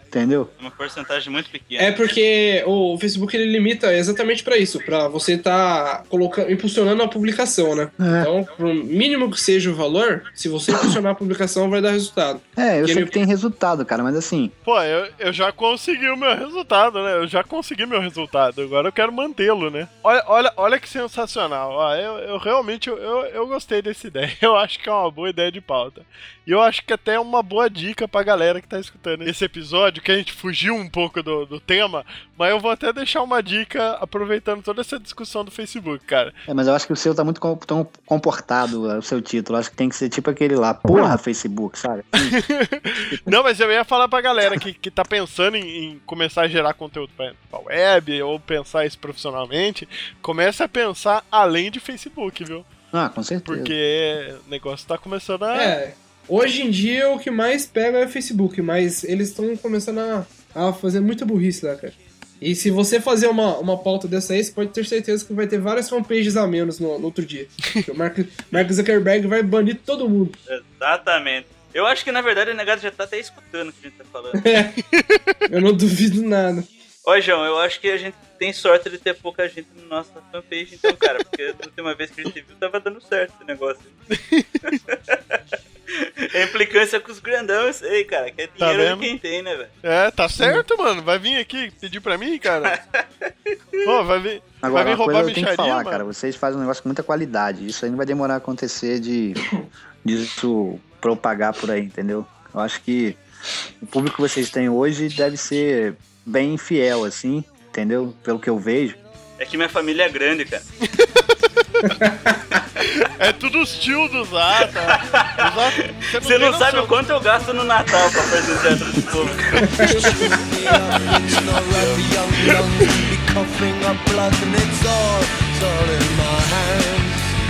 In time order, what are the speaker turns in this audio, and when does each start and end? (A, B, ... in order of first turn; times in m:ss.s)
0:00.1-0:00.5 A
0:00.6-0:02.0 B
0:01.8-0:13.1 C
0:08.0-0:08.3 A
0:12.6-0:14.5 A
0:14.6-0:36.3 D
0:36.5-0:42.4 A
0:42.2-0:52.6 D
0:43.0-0:43.3 A
0:52.9-0:53.7 A
0:53.4-0:55.8 D
0:55.5-1:10.4 C
1:10.5-1:14.5 B
1:14.4-1:14.8 C
1:14.9-1:15.4 D
1:15.5-1:16.7 C
1:17.0-1:23.9 B
1:24.1-1:24.7 D
1:24.7-1:25.2 B
1:25.9-1:29.7 B
1:28.6-1:29.1 D
1:29.8-1:32.8 D
1:30.3-1:30.6 A
1:32.6-1:33.8 B
1:33.8-1:36.0 D
1:34.6-1:39.4 A
1:40.0-1:43.2 A
1:43.8-1:49.0 A
1:49.4-1:50.6 B
1:51.0-1:51.9 D
1:53.0-1:56.9 D
1:54.9-1:55.4 B
1:56.2-2:00.8 B
1:59.6-1:59.9 C
1:59.8-2:07.1 E